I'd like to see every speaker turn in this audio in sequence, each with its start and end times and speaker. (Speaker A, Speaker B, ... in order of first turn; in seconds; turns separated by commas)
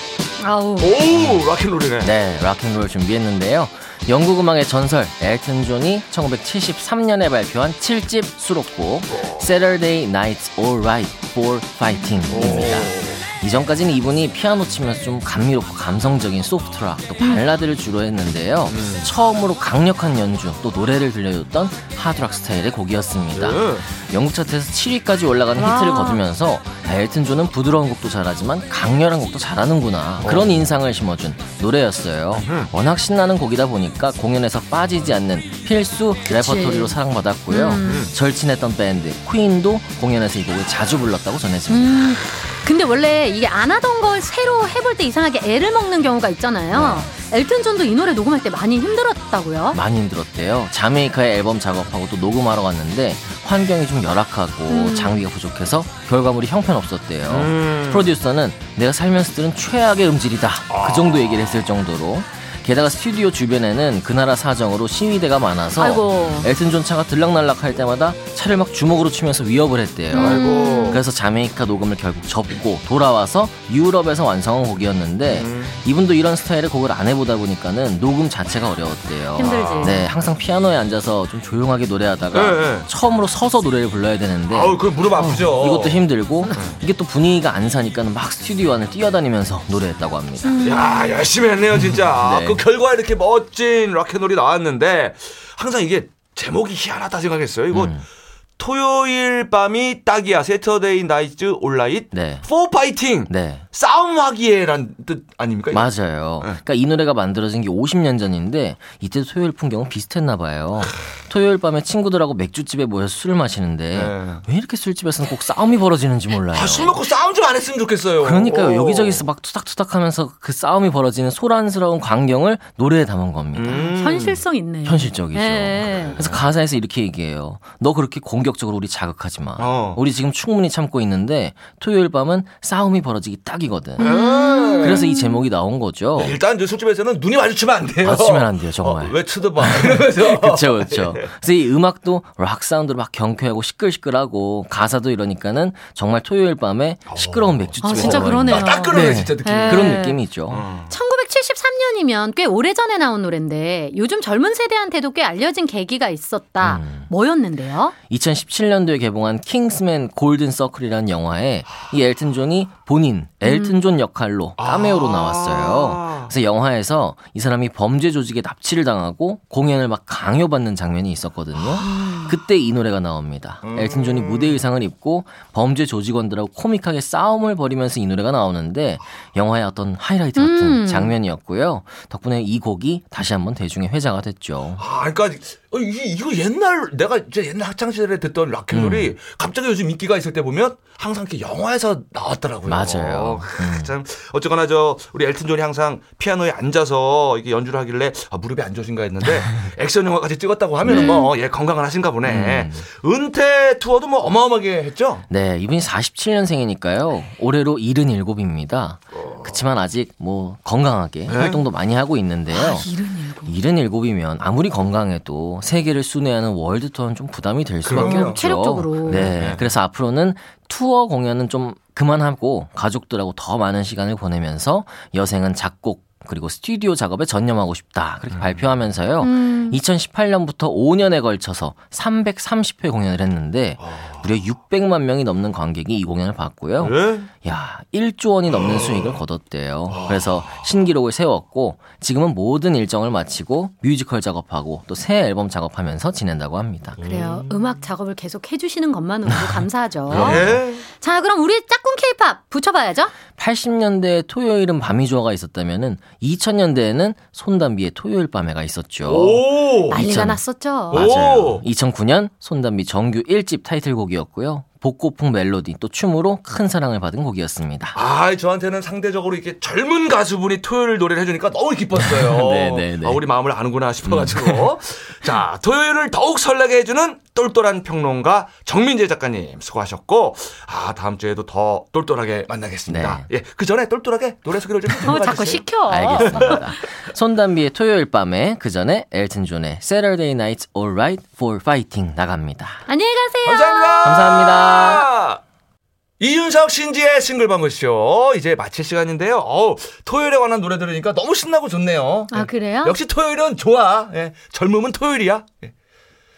Speaker A: 0.4-0.9, Speaker B: 0.8-2.1, Speaker C: 1.1-1.4, Speaker C: 2.0-42.2, Speaker B: 9.1-9.5, Speaker B: 12.3-13.2, Speaker A: 17.2-17.4, Speaker B: 18.7-19.1, Speaker B: 23.3-23.9, Speaker A: 25.6-26.2, Speaker B: 30.2-30.7, Speaker B: 32.4-32.7, Speaker A: 36.2-37.0, Speaker A: 37.5-38.1, Speaker B: 37.9-38.1, Speaker A: 41.7-49.8, Speaker C: 46.7-47.1, Speaker C: 49.7-90.6, Speaker A: 54.7-55.2, Speaker B: 57.3-58.1, Speaker B: 60.7-61.7, Speaker A: 65.8-66.5, Speaker A: 70.1-71.0, Speaker B: 70.2-71.0, Speaker B: 75.2-75.8, Speaker A: 79.4-80.1, Speaker B: 79.4-80.0, Speaker B: 82.3-82.9, Speaker B: 84.5-86.8, Speaker A: 90.4-91.1, Speaker B: 90.7-98.0, Speaker C: 92.1-92.6, Speaker C: 97.7-98.0, Speaker B: 98.6-106.6, Speaker C: 102.1-102.5, Speaker C: 103.3-103.7, Speaker C: 105.7-117.0, Speaker B: 113.9-114.4, Speaker B: 116.5-119.2, Speaker C: 118.2-123.9, Speaker B: 123.5-124.4, Speaker A: 123.8-126.2, Speaker C: 124.8-134.1, Speaker B: 125.9-126.4, Speaker B: 129.6-130.0, Speaker A: 134.0-135.4, Speaker B: 134.0-135.1, Speaker C: 134.8-136.4, Speaker B: 136.2-141.3, Speaker C: 138.0-150.7, Speaker B: 147.1-150.9, Speaker A: 147.8-150.2, Speaker A: 150.9-157.9, Speaker C: 156.6-157.1, Speaker C: 158.1-184.8, Speaker A: 163.4-163.8, Speaker B: 164.6-166.3, Speaker A: 171.8-172.4, Speaker B: 173.6-174.6, Speaker A: 180.4-181.2, Speaker B: 184.8-205.2, Speaker C: 188.7-189.2, Speaker C: 192.7-193.9, Speaker C: 200.8-201.2, Speaker A: 200.9-201.3, Speaker C: 202.3-202.9, Speaker C: 205.3-212.9, Speaker B: 211.3-211.7, Speaker A: 212.5-213.6, Speaker C: 213.4-247.0, Speaker B: 217.8-218.4, Speaker A: 218.0-219.3, Speaker B: 219.1-219.7, Speaker B: 228.3-228.7, Speaker A: 229.2-229.8, Speaker B: 233.8-234.2, Speaker B: 236.8-237.3, Speaker B: 238.6-239.2, Speaker B: 239.9-240.5, Speaker B: 247.0-247.6, Speaker A: 247.0-253.1, Speaker C: 250.1-250.6, Speaker B: 250.1-250.8, Speaker C: 253.4-268.0, Speaker B: 259.1-260.0, Speaker A: 259.9-261.1, Speaker B: 260.9-261.6, Speaker B: 267.9-285.6, Speaker C: 271.9-273.2, Speaker C: 274.1-274.7, Speaker C: 282.9-283.3, Speaker A: 285.0-286.7, Speaker C: 285.8-292.8, Speaker A: 292.9-294.2, Speaker B: 293.4-295.4, Speaker C: 294.0-295.1, Speaker B: 296.2-305.7, Speaker A: 302.3-303.0